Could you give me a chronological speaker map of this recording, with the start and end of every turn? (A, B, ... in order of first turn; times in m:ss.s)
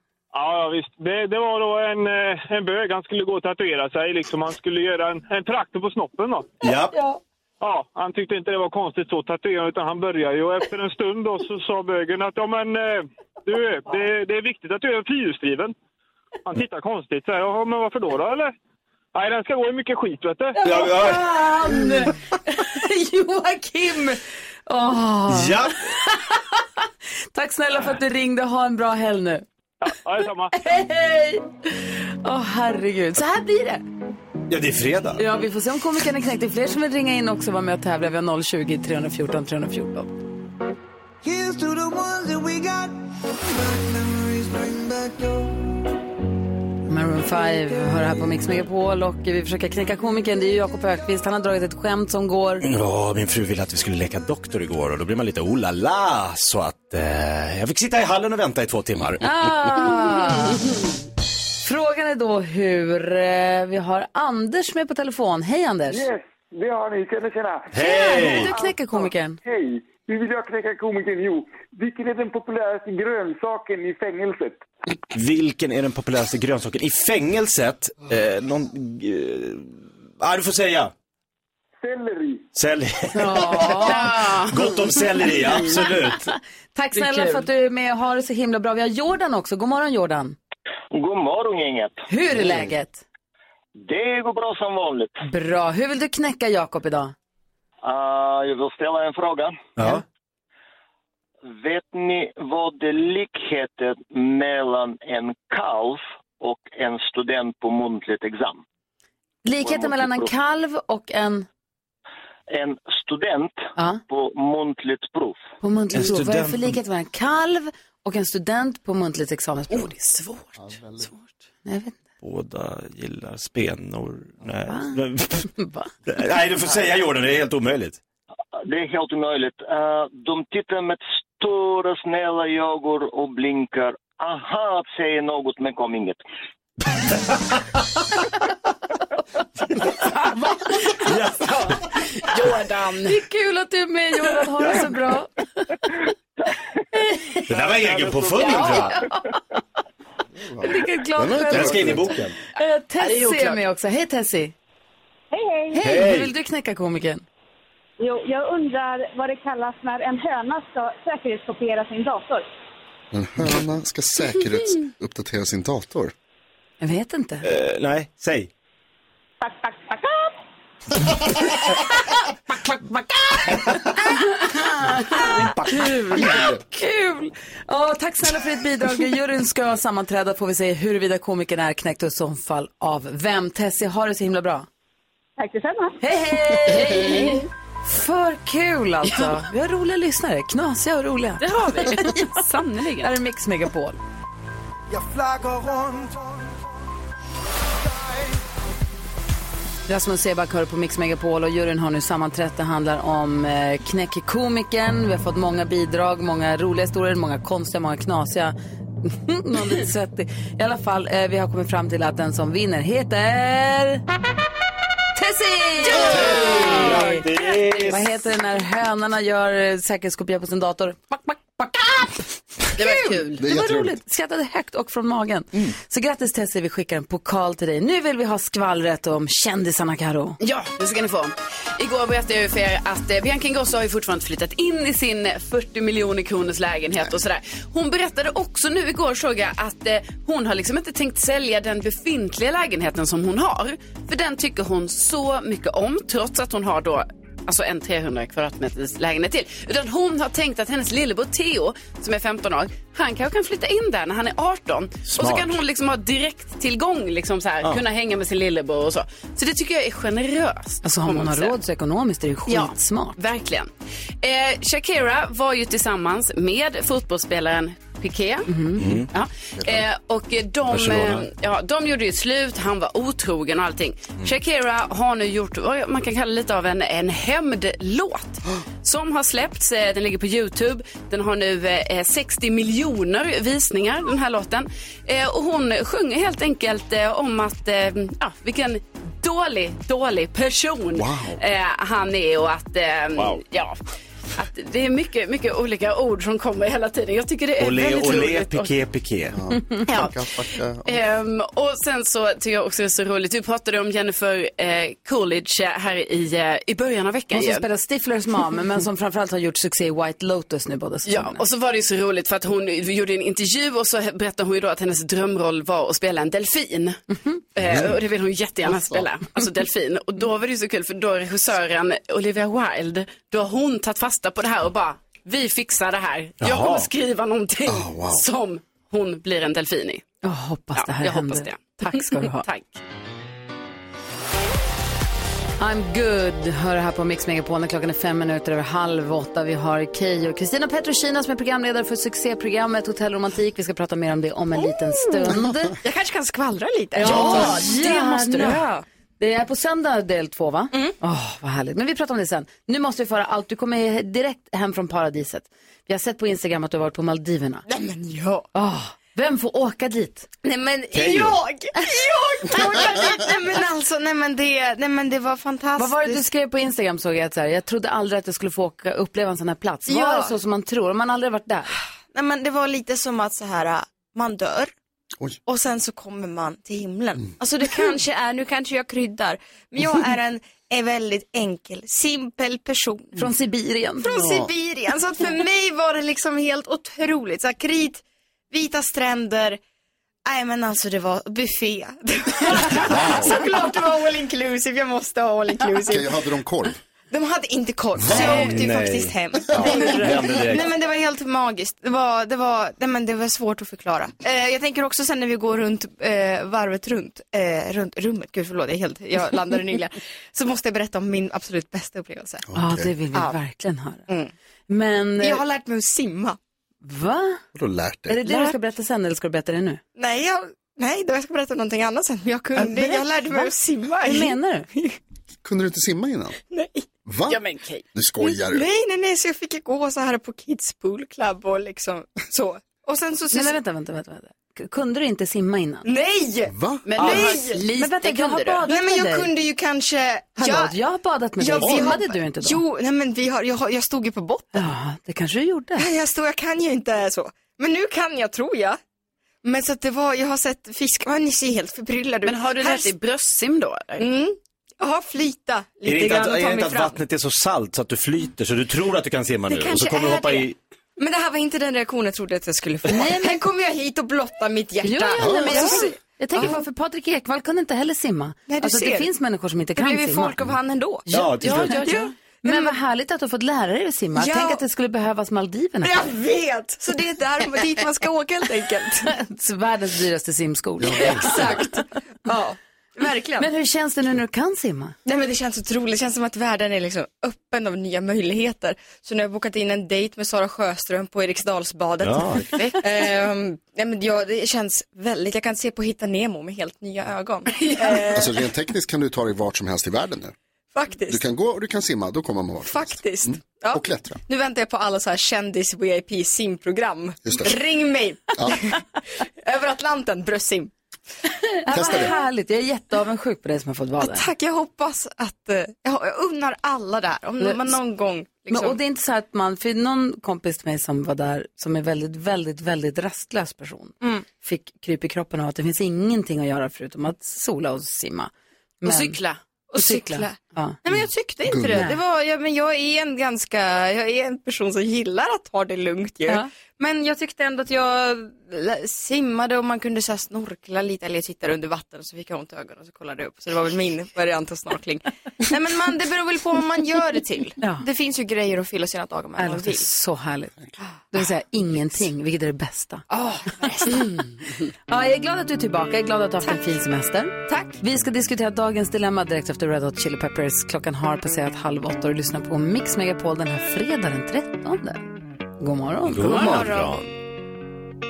0:00.3-0:06.5 A
0:06.6-0:06.9 B
0:06.9-0:07.2 C
0:07.6-0:15.7 A
0:16.4-0:18.5 A
0:19.1-0:20.6 A
0:20.6-0:26.6 C
0:20.6-0:21.3 B
0:25.3-0:25.8 B
0:27.3-0:29.4 C
0:29.8-0:30.5 A
0:30.5-0:33.8 C
0:34.5-0:35.2 B
0:35.2-0:40.1 C
0:41.2-0:45.8 D
0:46.9-0:52.6 C
0:52.6-0:59.2 B
0:59.2-1:00.7 C
1:01.6-1:06.0 C
1:05.9-1:14.6 E
1:07.7-1:08.5 B
1:07.8-1:09.4 C
1:15.1-1:20.9 B
1:21.8-1:22.5 E
1:22.5-1:26.3 B
1:23.1-1:24.1 C
1:23.8-1:24.6 F
1:26.7-1:30.4 C
1:27.0-1:27.3 F
1:30.9-1:32.0 G
1:32.1-1:33.0 C
1:33.8-1:35.2 G
1:35.2-1:37.1 C
1:37.8-1:39.7 G
1:39.8-1:40.0 B
1:41.4-1:48.6 G
1:49.4-1:51.4 C
1:49.6-1:50.3 G
1:52.5-1:55.4 G
1:55.6-2:00.2 C
1:55.9-1:56.8 B
2:00.6-2:01.1 H
2:01.6-2:02.0 C
2:02.2-2:05.5 B
2:04.7-2:05.0 C
2:05.5-2:05.9 C
2:06.0-2:08.0 B
2:08.6-2:16.2 G
2:20.6-2:23.2 F
2:21.0-2:21.7 B
2:23.0-2:25.3 C
2:26.9-2:27.6 C
2:27.5-2:29.0 B
2:28.4-2:29.4 C
2:30.4-2:32.2 H
2:30.6-2:34.5 C
2:31.2-2:32.3 B
2:33.0-2:33.6 F
2:35.3-2:35.8 I
2:35.7-2:37.2 C
2:35.8-2:36.3 B
2:38.0-2:42.4 I
2:43.1-2:46.1 H
2:46.8-2:47.4 C
2:47.4-2:48.5 B
2:49.4-2:50.4 I
2:52.1-3:04.7 C
2:55.2-2:56.2 B
3:05.4-3:06.0 I
3:06.0-3:12.3 C
3:11.4-3:13.1 F
3:13.0-3:14.0 C
3:14.9-3:16.6 D
3:17.7-3:18.4 D
3:19.9-3:34.0 C
3:35.2-3:37.2 C
3:35.9-3:37.7 F
3:36.0-3:38.2 B
3:37.8-3:42.2 C
3:42.8-3:50.4 C
3:42.8-3:43.4 F
3:43.4-3:44.0 H
3:50.4-4:21.6 F
4:15.0-4:15.6 B
4:20.8-4:23.2 C
4:22.5-4:23.7 F
4:24.2-4:28.5 F
4:28.5-4:28.8 C
4:28.8-4:29.1 B
4:29.1-4:53.8 F
4:29.6-4:29.8 H
4:30.7-4:31.2 B
4:50.9-4:51.4 H
4:54.3-4:58.7 F
4:57.6-4:59.4 B
4:59.3-5:01.0 H
4:59.9-5:00.2 F
5:00.8-5:07.6 F
5:07.3-5:11.4 C
5:11.1-5:17.0 F
5:17.6-5:30.0 F
5:26.4-5:26.9 B
5:27.6-5:28.2 H
5:30.2-5:32.4 C
5:30.8-5:32.8 F
5:35.6-5:45.8 C
5:44.5-5:48.8 J
5:46.9-5:48.7 C
5:47.3-5:48.6 F
5:49.2-5:57.6 C
5:50.7-5:51.0 J
5:57.7-5:58.5 J
5:58.5-6:00.3 C
6:00.4-6:06.3 J
6:00.9-6:01.4 B
6:05.8-6:11.7 C
6:09.9-6:10.3 J
6:12.1-6:14.7 J
6:15.4-6:23.2 J
6:23.1-6:24.3 C
6:24.0-6:29.6 J
6:24.1-6:24.5 H
6:30.2-6:36.2 J
6:32.7-6:33.4 H
6:35.8-6:36.8 H
6:37.1-6:52.4 J
6:38.0-6:38.6 H
6:38.0-6:40.7 B
6:39.6-6:39.9 H
6:52.5-6:52.9 H
6:52.5-6:54.1 C
6:54.7-6:55.4 C
6:55.2-6:56.4 J
6:56.8-6:57.4 C
6:57.5-6:58.3 H
6:58.1-6:59.8 C
6:58.3-6:58.5 J
7:00.0-7:04.9 J
7:02.6-7:04.6 C
7:05.4-7:06.4 H
7:06.5-7:06.8 J
7:07.1-7:07.4 H
7:07.3-7:07.8 F
7:07.9-7:08.7 H
7:08.2-7:13.6 J
7:13.3-7:15.9 C
7:15.8-7:17.6 J
7:16.5-7:17.3 H
7:16.9-7:18.7 F
7:17.0-7:19.3 C
7:18.6-7:20.8 J
7:20.4-7:22.6 C
7:21.4-7:24.7 J
7:21.6-7:22.0 H
7:24.5-7:25.9 C
7:25.8-7:28.8 J
7:29.4-7:32.9 J
7:32.2-7:34.0 F
7:34.0-7:37.0 J
7:35.8-7:40.6 B
7:39.5-7:46.6 J
7:42.9-7:43.4 C
7:44.8-7:50.3 C
7:45.2-7:45.8 H
7:48.5-7:49.1 J
7:49.7-7:51.1 J
7:51.1-7:56.2 C
7:51.1-7:51.8 B
7:51.4-7:51.9 F
7:51.6-7:52.8 J
7:54.1-7:54.6 J
7:55.8-7:59.1 J
7:59.0-8:01.8 C
8:00.8-8:01.4 H
8:01.0-8:03.5 J
8:03.4-8:04.9 C
8:05.0-8:18.3 J
8:12.0-8:12.5 B
8:12.5-8:12.8 F
8:17.5-8:18.0 F
8:18.1-8:20.3 H
8:20.7-8:21.2 J
8:21.1-8:24.2 H
8:22.6-8:30.7 J
8:27.2-8:27.6 H
8:31.6-8:34.3 C
8:31.7-8:32.1 H
8:34.0-8:38.8 J
8:37.4-8:37.8 C
8:38.5-8:48.3 C
8:48.8-8:49.2 C
8:48.8-8:49.4 F
8:49.7-9:09.9 J
8:49.8-8:50.8 C
8:51.4-8:51.8 H
8:51.7-8:52.0 C
9:09.4-9:10.5 C
9:11.1-9:13.1 C
9:13.1-9:14.1 J
9:13.9-9:14.2 C
9:14.9-9:25.0 C
9:17.5-9:17.7 J
9:25.6-9:26.7 C
9:26.1-9:27.1 B
9:26.2-9:27.0 J